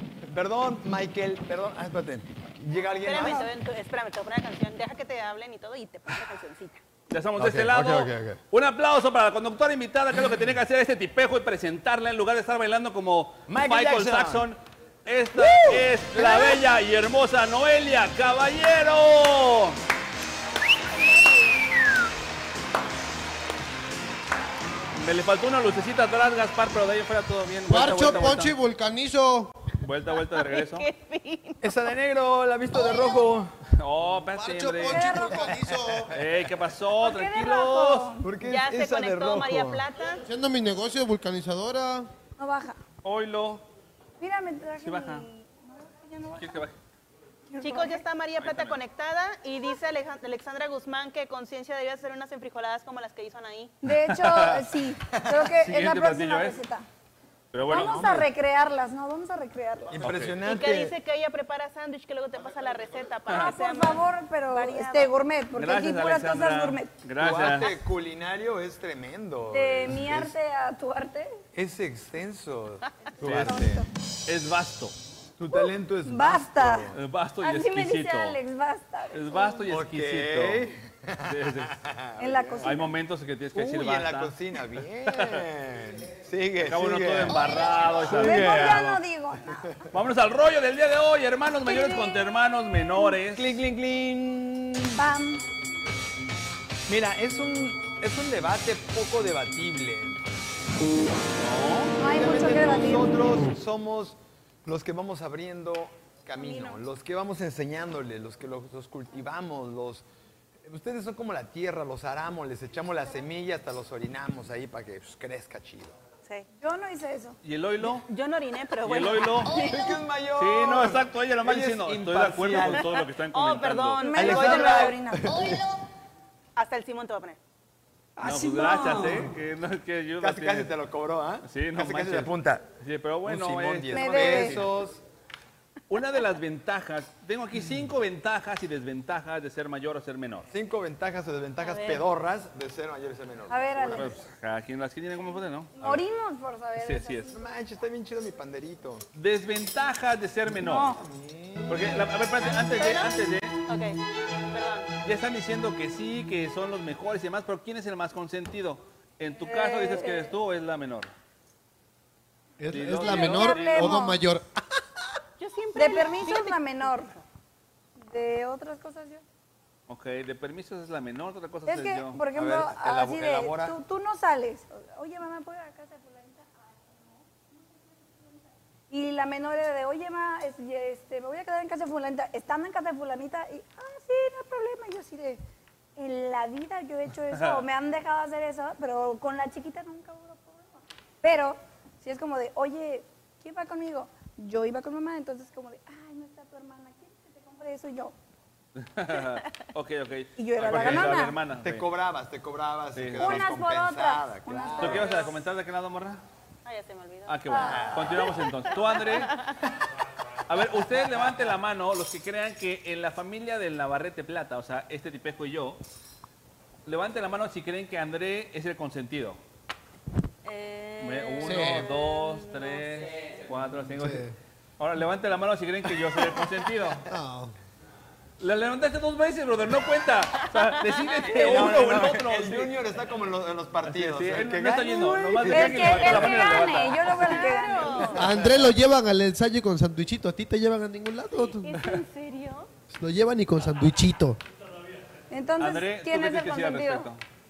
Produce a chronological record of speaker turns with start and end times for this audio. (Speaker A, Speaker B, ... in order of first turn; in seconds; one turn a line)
Speaker A: 0.2-3.5
Speaker B: 3.0-6.8
Speaker C: 3.2-3.5
Speaker D: 7.1-19.8
Speaker A: 7.4-8.4
Speaker A: 13.5-14.5
Speaker A: 15.3-16.6
Speaker D: 24.9-28.6
Speaker E: 27.7-29.6
Speaker D: 29.8-30.9
Speaker B: 30.4-31.7
Speaker A: 31.6-33.5
Speaker D: 33.8-35.2
Speaker E: 34.4-36.1
Speaker C: 34.9-35.5
Speaker A: 35.5-36.0
Speaker D: 36.1-38.1
Speaker C: 37.0-38.3
Speaker A: 38.2-39.8
Speaker B: 38.4-40.2
Speaker E: 40.3-42.1
Speaker C: 42.4-42.8
Speaker D: 43.0-43.6
Speaker C: 44.2-46.6
Speaker D: 44.8-45.2
Speaker D: 46.4-46.8
Speaker C: 47.5-48.0
Speaker B: 47.6-53.8
Speaker D: 48.4-48.8
Speaker C: 53.8-56.9
Speaker D: 54.1-54.7
Speaker D: 55.6-56.6
Speaker D: 57.5-58.2
Speaker C: 57.7-60.0
Speaker A: 57.7-58.3
Speaker A: 59.9-61.0
Speaker D: 60.0-60.4
Speaker B: 60.4-65.2
Speaker D: 63.3-63.5
Speaker C: 63.3-66.9
Speaker D: 65.6-67.7
Speaker A: 67.2-70.3
Speaker C: 69.5-71.3
Speaker A: 71.5-73.8
Speaker C: 73.2-73.9
Speaker D: 73.2-75.0
Speaker A: 75.4-77.0
Speaker C: 75.5-79.7
Speaker D: 76.9-78.4
Speaker D: 79.1-80.7
Speaker A: 79.7-82.8
Speaker D: 81.2-81.8
Speaker C: 82.2-82.9
Speaker D: 82.6-84.4
Speaker A: 83.5-89.0
Speaker D: 85.1-85.4
Speaker D: 86.6-89.0
Speaker C: 88.1-89.8
Speaker D: 89.9-93.5
Speaker C: 91.7-92.2
Speaker A: 93.3-95.0
Speaker C: 95.0-95.4
Speaker A: 96.9-100.2
Speaker D: 101.4-101.9
Speaker C: 102.0-103.1
Speaker A: 102.0-110.0
Speaker C: 106.4-106.8
Speaker A: 110.6-116.0
Speaker C: 116.6-117.4
Speaker D: 117.4-118.1
Speaker B: 117.8-119.9
Speaker D: 118.8-119.5
Speaker A: 119.5-122.9
Speaker D: 120.4-124.4
Speaker B: 122.6-125.0
Speaker C: 124.0-125.4
Speaker A: 124.1-125.6
Speaker B: 126.6-127.4
Speaker D: 128.2-130.7
Speaker A: 130.2-132.7
Speaker D: 131.4-134.7
Speaker A: 133.3-135.0
Speaker C: 133.9-134.6
Speaker D: 135.9-140.5
Speaker A: 140.5-144.2
Speaker B: 141.6-142.0
Speaker C: 143.5-144.2
Speaker D: 143.9-146.0
Speaker C: 145.8-147.4
Speaker D: 146.8-147.3
Speaker A: 147.3-149.1
Speaker D: 149.1-150.9
Speaker C: 150.6-151.0
Speaker A: 150.7-152.2
Speaker D: 151.7-153.6
Speaker B: 152.4-153.1
Speaker B: 153.7-154.0
Speaker B: 154.5-154.9
Speaker D: 155.0-161.1
Speaker C: 159.4-160.3
Speaker E: 162.6-164.5
Speaker D: 162.7-164.0
Speaker C: 163.1-164.2
Speaker B: 165.4-167.2
Speaker C: 165.8-167.1
Speaker C: 168.0-169.2
Speaker D: 169.9-172.2
Speaker C: 171.7-178.3
Speaker A: 172.3-173.8
Speaker C: 178.9-185.4
Speaker C: 186.0-198.1
Speaker D: 187.3-187.7
Speaker D: 198.8-201.9
Speaker C: 200.4-201.4
Speaker A: 200.7-205.2
Speaker D: 202.9-203.5
Speaker C: 203.2-205.2
Speaker D: 204.8-206.2
Speaker B: 206.7-209.5
Speaker D: 207.3-209.3
Speaker C: 207.5-208.0
Speaker A: 207.5-208.3
Speaker D: 210.5-215.8
Speaker D: 216.9-219.4
Speaker B: 220.4-223.3
Speaker D: 221.0-227.0
Speaker E: 221.4-222.0
Speaker E: 223.9-224.3
Speaker E: 227.1-227.5
Speaker D: 228.4-232.7
Speaker A: 231.3-236.4
Speaker D: 233.9-237.4
Speaker C: 235.4-238.2
Speaker B: 237.2-238.3
Speaker E: 238.2-241.8
Speaker A: 238.2-238.7
Speaker B: 241.4-242.7
Speaker E: 242.9-244.4
Speaker C: 245.3-247.1
Speaker D: 245.6-247.2